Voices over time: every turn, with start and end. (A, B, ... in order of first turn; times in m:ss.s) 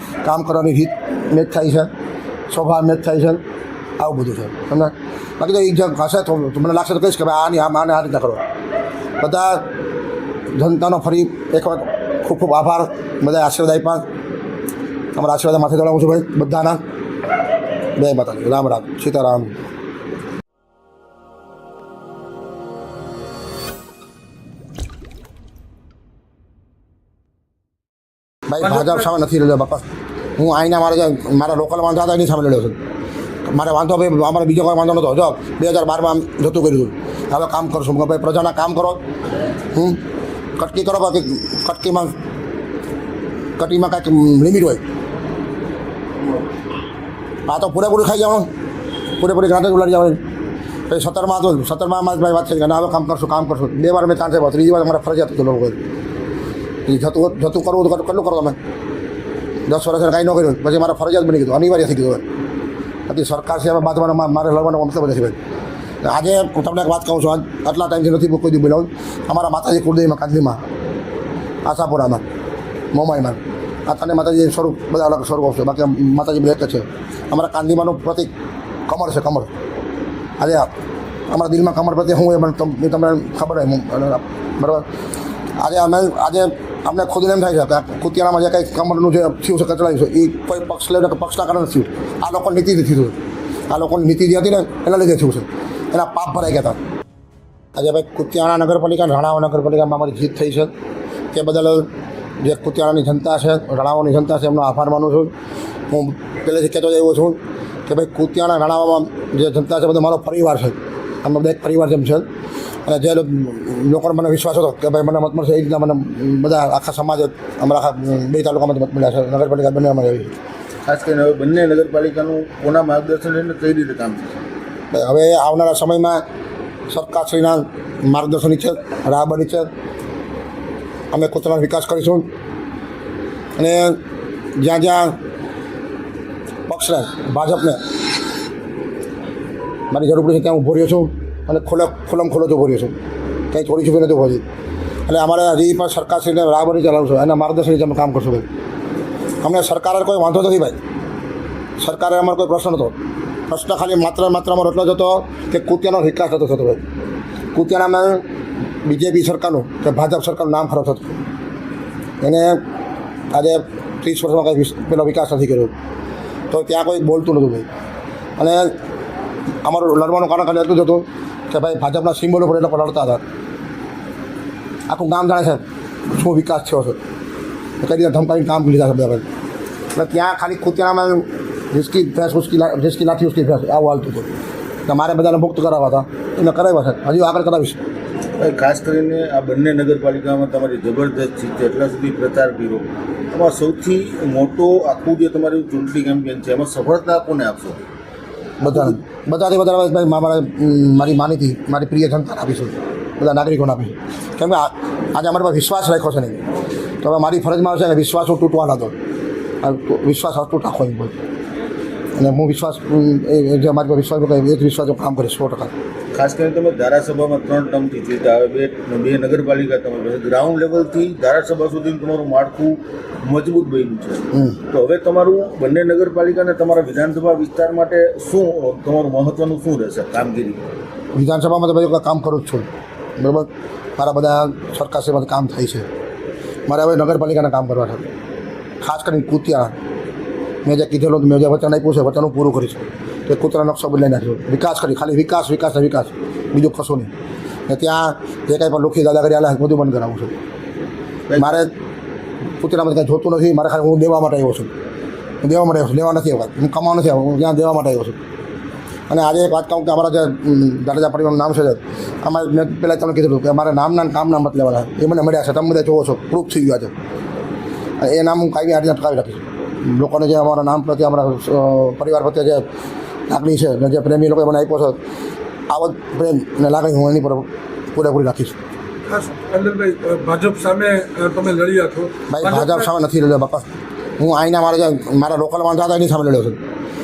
0:00.2-0:01.9 A
0:02.5-0:03.4 A
0:04.0-0:08.4 A
0:09.2-0:09.7 A
0:10.5-0:14.0 A
0:15.1-0:16.8 A
0:18.0-0:19.5 A
0:28.5-0:29.9 A
0:30.4-0:32.8 A
0:33.5-0:39.0 A
0:39.7-0:40.0 A
0:40.6-0:42.1 A
0:43.6-0:44.8 A
0:47.5-0:48.5 A
0:49.2-0:50.2 A
0:50.9-0:55.8 A
0:56.9-0:58.6 A
0:59.7-1:02.2 A
1:03.1-1:05.4 A
1:06.0-1:10.6 A
1:11.6-1:12.2 A
1:12.9-1:18.3 A
1:18.9-1:19.5 A
1:20.4-1:20.7 A
1:21.3-1:24.8 A
1:25.6-1:33.2 A
1:33.7-1:36.8 A
1:37.8-1:40.7 A
1:41.3-1:41.9 A
1:42.4-1:45.3 A
1:45.9-1:52.3 A
1:52.8-2:00.3 A
2:00.8-2:04.4 B
2:04.9-2:06.2 A
2:06.9-2:09.7 A
2:11.1-2:12.3 A
2:13.6-2:14.0 A
2:14.6-2:15.2 A
2:16.7-2:17.8 A
2:19.9-2:22.9 A
2:23.5-2:24.4 A
2:25.1-2:28.5 A
2:29.4-2:30.8 A
2:31.8-2:33.0 A
2:33.5-2:36.8 A
2:37.5-2:38.2 A
2:38.8-2:41.1 A
2:42.2-2:42.6 A
2:43.3-2:45.7 A
2:46.5-2:47.7 A
2:48.4-2:48.7 A
2:49.6-2:53.2 A
2:54.9-2:57.0 A
2:57.8-2:59.2 A
3:00.0-3:04.3 A
3:04.9-3:07.8 A
3:08.4-3:17.8 B
3:18.6-3:26.4 A
3:18.7-3:19.0 B
3:27.0-3:28.9 A
3:29.6-3:31.2 A
3:32.1-3:35.7 A
3:36.1-3:50.6 B
3:44.3-3:44.6 A
3:51.2-3:55.9 A
3:56.7-3:58.0 A
3:58.8-3:59.7 A
4:00.6-4:07.1 A
4:07.7-4:10.3 A
4:11.3-4:11.5 B
4:11.4-4:11.7 A
4:12.6-4:14.7 A
4:15.4-4:18.2 A
4:19.1-4:26.9 A
4:28.0-4:32.7 A
4:33.3-4:35.0 A
4:35.7-4:38.6 A
4:39.1-4:42.9 C
4:42.3-4:43.7 A
4:44.2-4:46.6 A